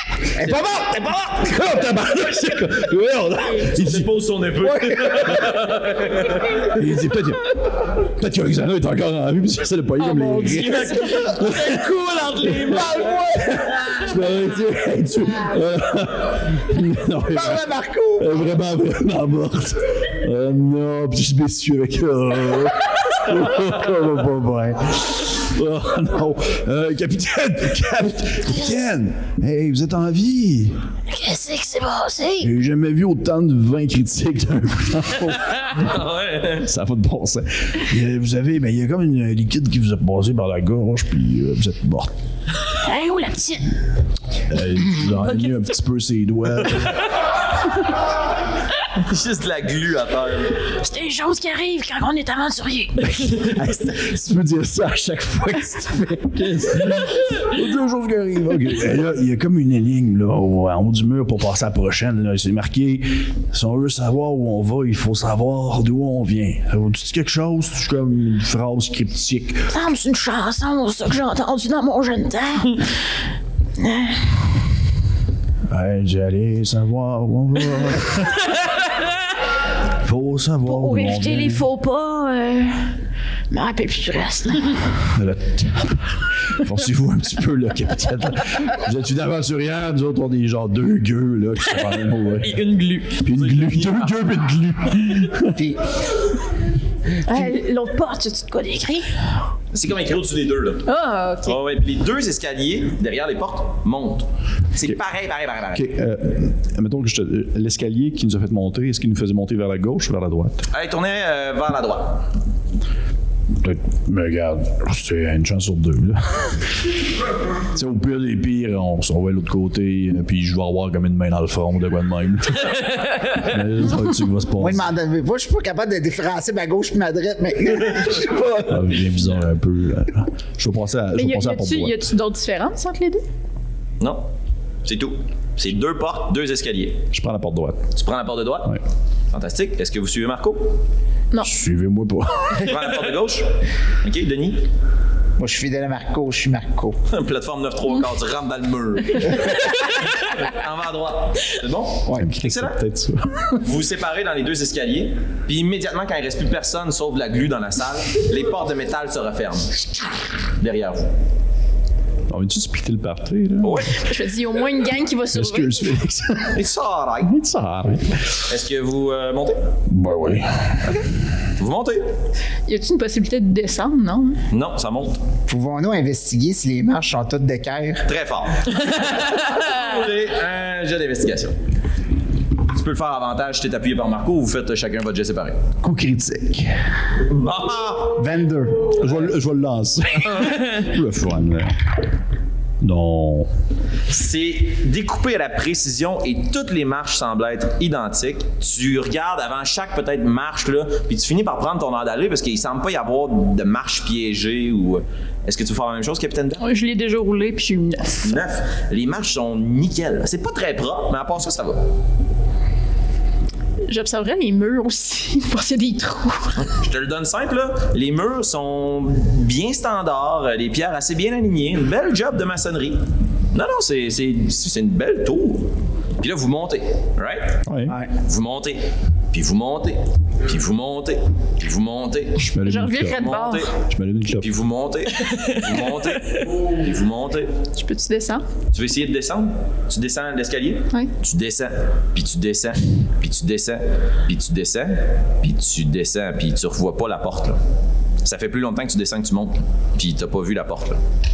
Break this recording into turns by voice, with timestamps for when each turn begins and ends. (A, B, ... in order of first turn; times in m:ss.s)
0:00.4-0:00.7 A
0:00.4-0:01.4 B
0:01.3-0:04.1 C
0:03.6-0:06.7 A
0:06.6-0:11.9 C
0:10.0-0:12.9 D
0:12.4-0:17.7 C
0:12.6-0:13.6 B
0:17.2-0:18.4 B
0:18.2-0:30.8 C
0:31.2-0:32.3 D
0:32.4-0:35.8 C
0:35.6-0:36.7 A
0:36.6-0:42.1 C
0:44.4-0:47.1 C
0:48.8-0:50.7 A
0:50.8-0:52.6 D
0:53.0-1:09.7 C
1:09.7-1:10.6 D
1:11.3-1:12.8 D
1:15.7-1:18.5 C
1:20.0-1:21.6 C
1:20.7-1:22.5 D
1:25.0-1:32.6 C
1:32.4-1:33.2 D
1:33.2-1:35.6 C
1:33.3-1:34.3 A
1:35.5-1:35.8 B
1:37.3-1:38.5 E
1:39.7-1:40.9 A
1:40.8-1:41.6 E
1:41.4-1:45.9 A
1:45.7-1:50.7 C
1:50.7-1:52.2 A
1:53.6-1:57.0 C
1:57.7-2:04.9 C
2:04.6-2:08.8 B
2:08.6-2:12.1 C
2:11.1-2:13.2 E
2:14.0-2:14.2 A
2:14.8-2:17.0 A
2:17.1-2:17.9 C
2:17.9-2:18.8 A
2:19.3-2:20.8 A
2:21.4-2:22.7 C
2:22.5-2:23.5 A
2:24.0-2:24.6 A
2:25.4-2:27.0 B
2:27.1-2:32.8 A
2:32.0-2:32.3 B
2:32.1-2:33.5 C
2:33.5-2:39.9 A
2:40.6-2:41.1 A
2:42.3-2:43.8 C
2:43.6-2:44.0 A
2:43.9-2:46.0 E
2:45.3-2:46.6 C
2:46.5-2:47.3 A
2:47.2-2:48.3 C
2:48.4-2:49.6 A
2:49.9-2:50.8 C
2:51.6-2:52.0 A
2:52.7-2:54.4 E
2:54.5-2:55.2 A
2:55.5-2:58.0 B
2:58.0-3:01.5 A
3:02.7-3:05.6 A
3:05.8-3:06.6 B
3:05.9-3:06.4 C
3:07.3-3:08.2 A
3:08.1-3:09.1 B
3:09.0-3:11.7 C
3:12.8-3:13.5 C
3:14.1-3:26.6 A
3:26.6-3:28.4 E
3:28.2-3:31.8 A
3:33.9-3:36.7 E
3:36.6-3:43.0 A
3:43.5-3:47.6 A
3:47.6-3:48.0 C
3:47.9-3:48.1 B
3:48.2-3:52.4 A
3:52.4-3:54.5 C
3:52.6-3:53.7 E
3:53.1-3:53.7 A
3:54.4-3:57.5 A
3:57.7-3:58.4 E
3:58.7-4:07.6 A
4:08.2-4:11.0 A